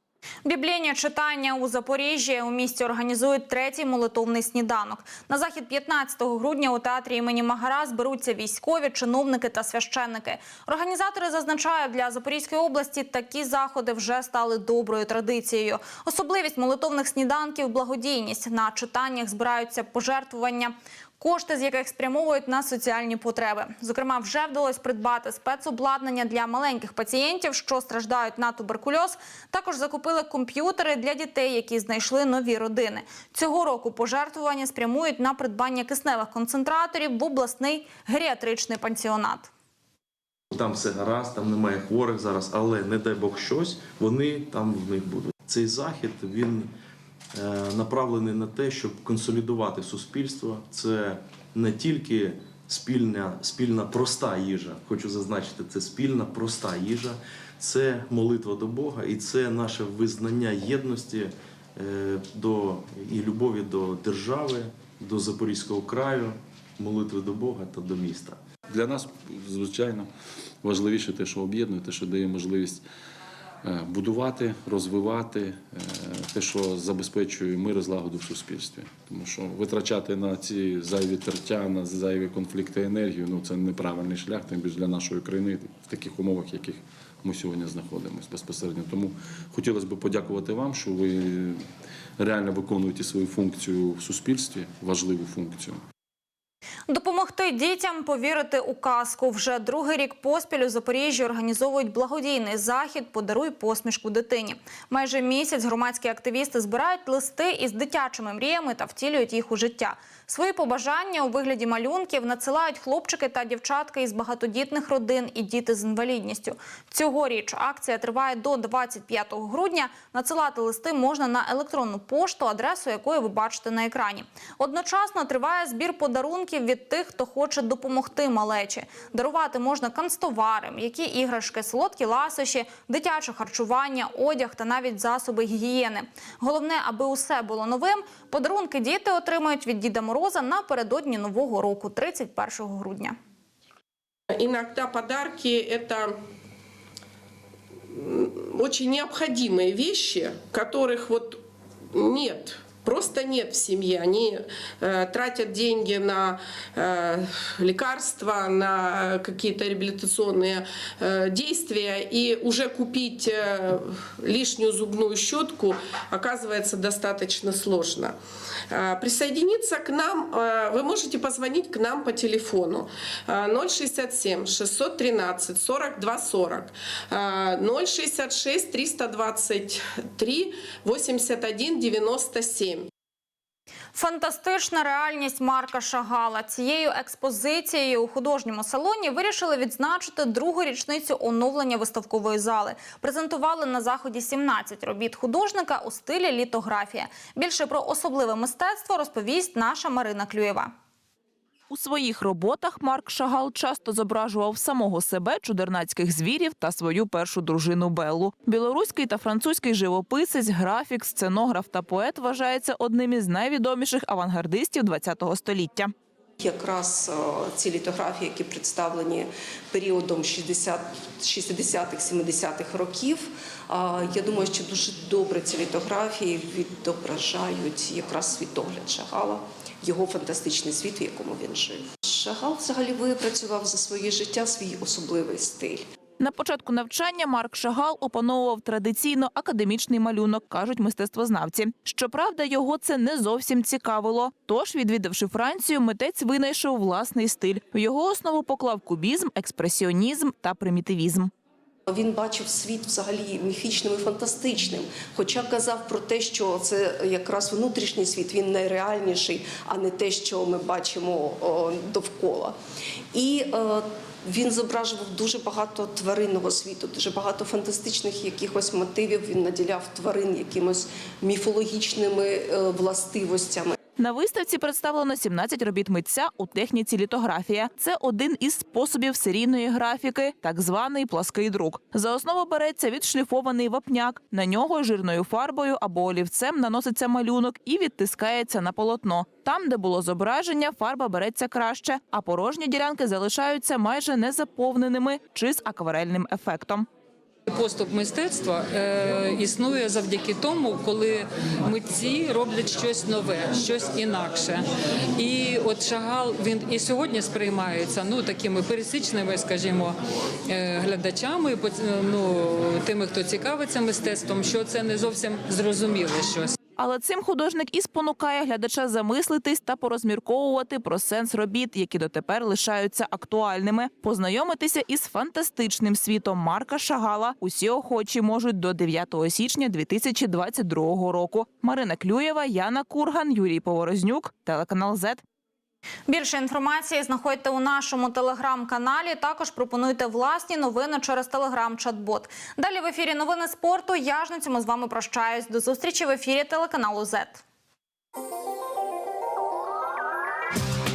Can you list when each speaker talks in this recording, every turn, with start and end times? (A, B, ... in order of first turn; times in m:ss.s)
0:00.4-0:39.5 A
0:40.5-0:46.7 B
0:47.3-1:08.4 B
1:08.7-1:10.1 C
1:10.6-1:12.8 C
1:13.6-1:31.6 C
1:32.2-1:35.8 C
1:36.9-2:23.2 A
2:24.3-2:26.2 D
2:27.9-2:31.4 D
2:31.9-2:48.2 D
2:48.7-3:02.9 D
3:04.0-3:20.7 A
3:21.7-3:35.9 E
3:36.4-3:55.8 F
3:56.2-4:11.3 E
4:11.9-4:22.6 F
4:23.1-4:33.8 F
4:34.0-4:56.9 E
4:57.5-5:16.6 G
5:16.8-5:35.2 E
5:36.1-5:47.4 A